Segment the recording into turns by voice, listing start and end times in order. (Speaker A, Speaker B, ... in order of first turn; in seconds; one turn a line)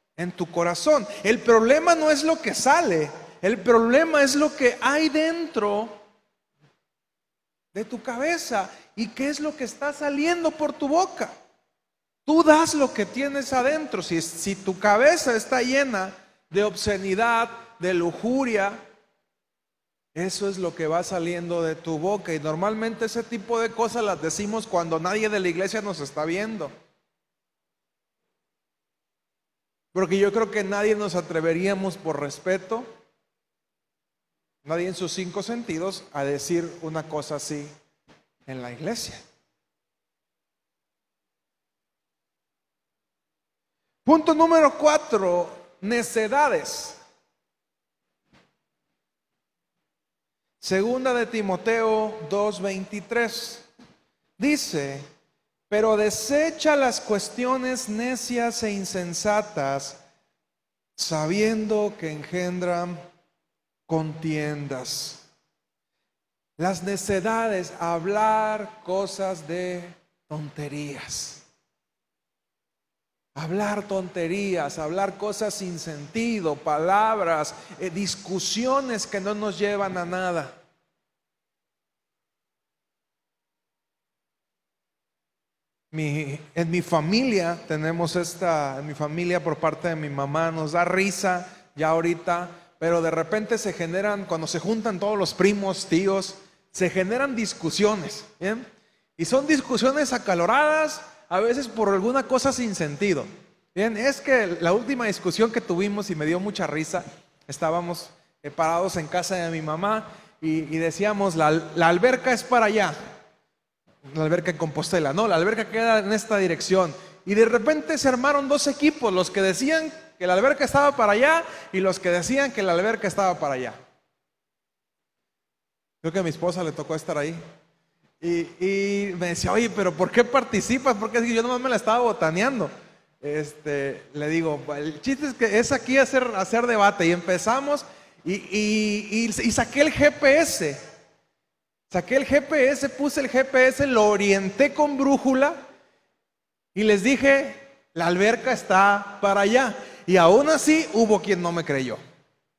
Speaker A: 0.2-6.0
Speaker A: 7.7-11.3
Speaker A: 12.3-18.8
Speaker A: 20.1-26.7
Speaker A: 29.9-32.9
Speaker A: 34.6-37.7
Speaker A: 38.5-39.2
Speaker A: 44.0-47.0
Speaker A: 50.6-53.7
Speaker A: 54.4-55.0
Speaker A: 55.7-60.0
Speaker A: 61.0-63.0
Speaker A: 63.9-65.3
Speaker A: 66.6-71.5
Speaker A: 73.3-80.6
Speaker A: 85.9-113.1
Speaker A: 114.1-123.8
Speaker A: 126.0-127.4
Speaker A: 128.2-140.8
Speaker A: 141.9-145.6
Speaker A: 146.7-152.0